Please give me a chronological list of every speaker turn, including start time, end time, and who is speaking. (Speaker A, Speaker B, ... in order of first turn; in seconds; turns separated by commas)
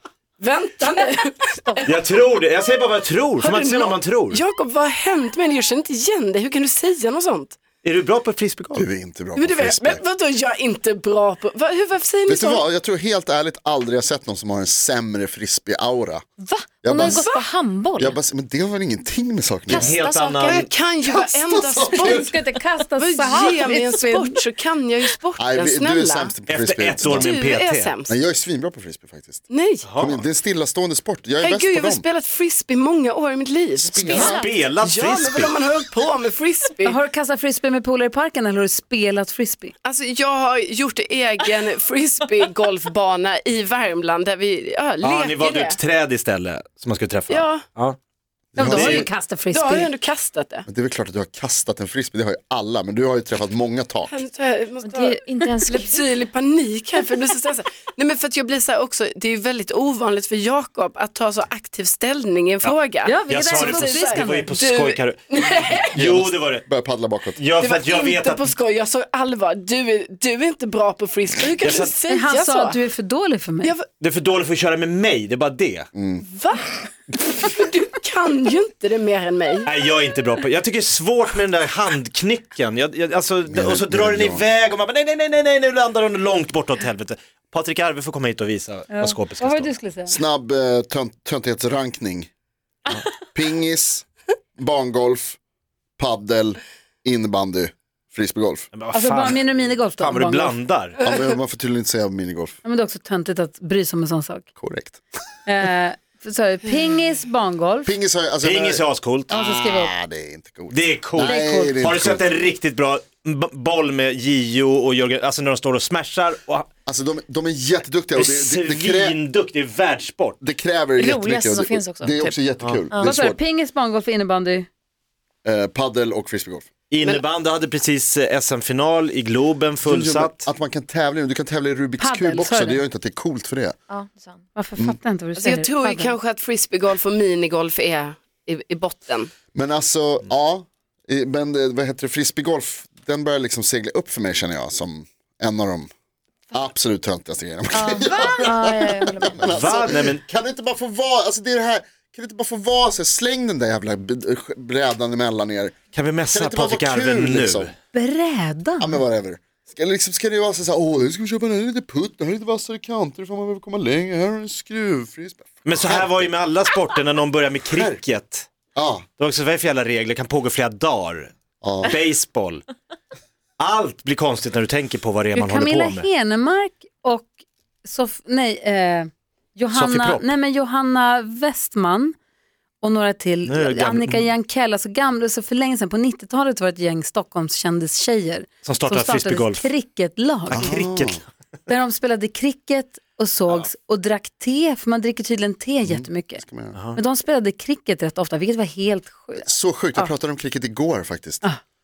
Speaker A: 0.4-2.0, Speaker B: 1.8-4.4, Speaker A: 3.4-7.6, Speaker B: 7.8-8.9, Speaker C: 8.8-10.0, Speaker A: 9.3-12.6, Speaker C: 12.3-16.3, Speaker D: 16.4-18.2, Speaker C: 16.8-17.2, Speaker A: 17.0-17.4, Speaker C: 18.0-20.0, Speaker B: 19.7-20.7, Speaker E: 19.7-20.6, Speaker A: 19.8-22.4, Speaker C: 21.1-22.3, Speaker D: 22.0-24.4, Speaker A: 23.0-26.3, Speaker C: 25.4-27.3, Speaker B: 26.5-27.9, Speaker A: 27.0-28.1, Speaker C: 28.1-29.4, Speaker A: 29.5-29.9, Speaker B: 29.8-30.2, Speaker C: 30.0-32.0, Speaker A: 31.4-37.0, Speaker C: 33.8-34.4, Speaker E: 34.1-34.6, Speaker B: 34.2-35.6, Speaker D: 36.9-39.7, Speaker A: 39.8-45.8, Speaker B: 45.0-48.0, Speaker A: 47.3-47.6, Speaker C: 48.5-49.1, Speaker D: 48.6-49.9, Speaker B: 48.6-49.1, Speaker A: 49.5-50.7, Speaker C: 50.7-54.2, Speaker A: 54.1-65.9, Speaker E: 54.8-56.1, Speaker D: 63.0-64.5, Speaker B: 63.3-66.7, Speaker C: 65.9-67.4, Speaker B: 67.4-68.5, Speaker A: 67.6-72.8, Speaker B: 71.6-72.0, Speaker D: 72.1-73.7, Speaker B: 74.0-75.9, Speaker C: 76.0-76.2, Speaker A: 76.2-79.7, Speaker B: 79.7-89.7, Speaker C: 83.5-84.5, Speaker D: 88.9-90.2, Speaker C: 90.1-92.3, Speaker C: 93.3-94.1, Speaker C: 94.6-95.4, Speaker C: 96.0-98.7, Speaker B: 98.7-101.0, Speaker D: 98.9-100.6, Speaker C: 101.0-102.6, Speaker D: 102.6-104.5, Speaker C: 104.6-105.0, Speaker D: 105.5-107.9, Speaker C: 107.8-112.3, Speaker B: 108.4-109.3, Speaker D: 109.3-109.9, Speaker B: 110.7-116.7, Speaker D: 111.2-111.8, Speaker C: 116.9-119.2, Speaker B: 118.2-120.4, Speaker C: 120.4-123.4, Speaker E: 121.0-122.4, Speaker D: 123.0-124.7, Speaker C: 125.4-126.7, Speaker B: 126.9-130.5, Speaker C: 129.8-133.8, Speaker D: 132.0-132.8, Speaker E: 133.9-134.4, Speaker D: 134.6-136.2, Speaker A: 135.4-139.3, Speaker C: 139.5-145.9, Speaker C: 146.5-155.8, Speaker E: 147.7-149.8, Speaker B: 149.5-150.2, Speaker B: 155.9-157.7, Speaker C: 156.3-157.7, Speaker D: 157.9-159.0, Speaker C: 158.8-166.3, Speaker B: 165.7-168.5, Speaker C: 167.7-168.0, Speaker C: 168.8-169.1, Speaker B: 169.2-171.3, Speaker C: 171.6-171.9, Speaker B: 171.8-172.7, Speaker B: 173.6-176.1, Speaker D: 175.3-182.2, Speaker B: 179.7-180.3, Speaker D: 182.8-190.7, Speaker B: 183.5-184.3, Speaker B: 188.6-189.7, Speaker B: 190.5-191.3, Speaker C: 190.5-191.2, Speaker D: 191.7-196.4, Speaker C: 195.8-196.8, Speaker D: 196.9-200.1, Speaker C: 199.4-201.4